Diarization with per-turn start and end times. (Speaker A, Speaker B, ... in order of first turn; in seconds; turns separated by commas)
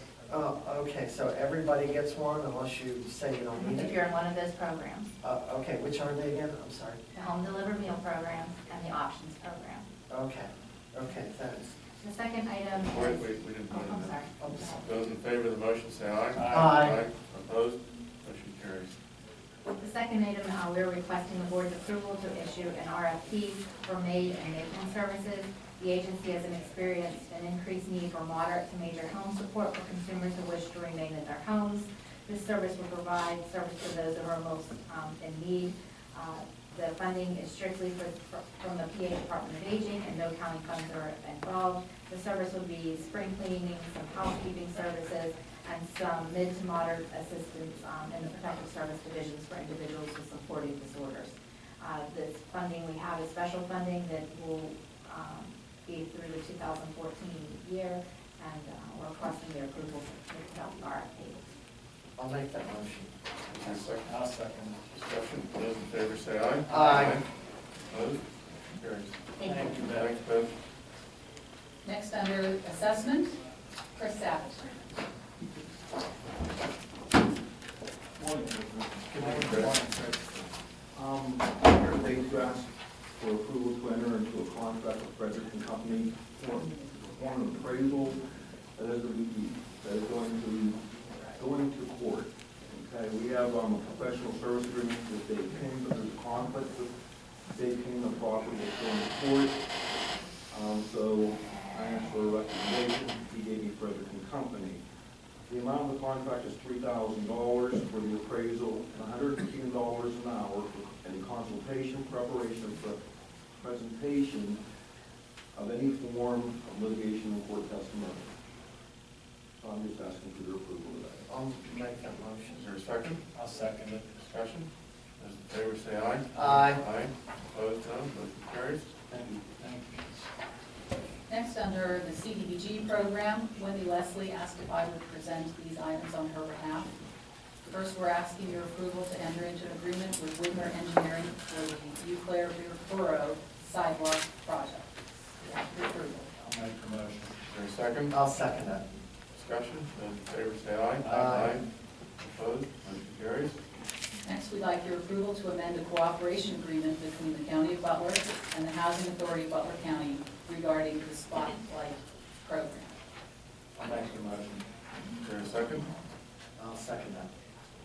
Speaker A: 0.3-4.0, Speaker B: 3.6-5.1, Speaker A: 5.2-7.0, Speaker B: 7.2-9.8, Speaker A: 10.1-11.8, Speaker B: 12.0-14.8, Speaker C: 12.9-19.0, Speaker A: 14.4-14.7, Speaker D: 16.3-16.8, Speaker A: 16.5-17.0, Speaker B: 19.7-61.5, Speaker A: 62.2-63.1, Speaker C: 63.5-64.1, Speaker D: 64.1-64.8, Speaker C: 64.9-67.2, Speaker A: 66.7-67.2, Speaker C: 67.9-70.5, Speaker D: 69.5-70.1, Speaker E: 71.8-73.4, Speaker E: 73.9-74.9, Speaker D: 78.2-80.3, Speaker C: 79.1-79.7, Speaker F: 80.9-88.2, Speaker F: 88.8-90.8, Speaker F: 91.3-96.9, Speaker F: 97.5-99.6, Speaker F: 100.5-104.8, Speaker F: 105.5-113.0, Speaker F: 113.6-114.6, Speaker F: 115.5-118.3, Speaker F: 119.6-121.3, Speaker A: 121.3-122.6, Speaker C: 122.5-123.2, Speaker D: 123.3-124.1, Speaker C: 124.2-128.9, Speaker A: 126.3-126.8, Speaker D: 129.6-130.2, Speaker E: 131.3-136.9, Speaker E: 137.6-144.9, Speaker E: 145.4-146.3, Speaker D: 146.4-147.5, Speaker C: 147.5-148.1, Speaker A: 148.1-148.8, Speaker C: 149.3-151.6, Speaker A: 151.1-151.6, Speaker C: 152.2-153.6, Speaker E: 154.2-162.9, Speaker D: 163.8-164.6, Speaker C: 165.2-165.9, Speaker A: 166.6-167.3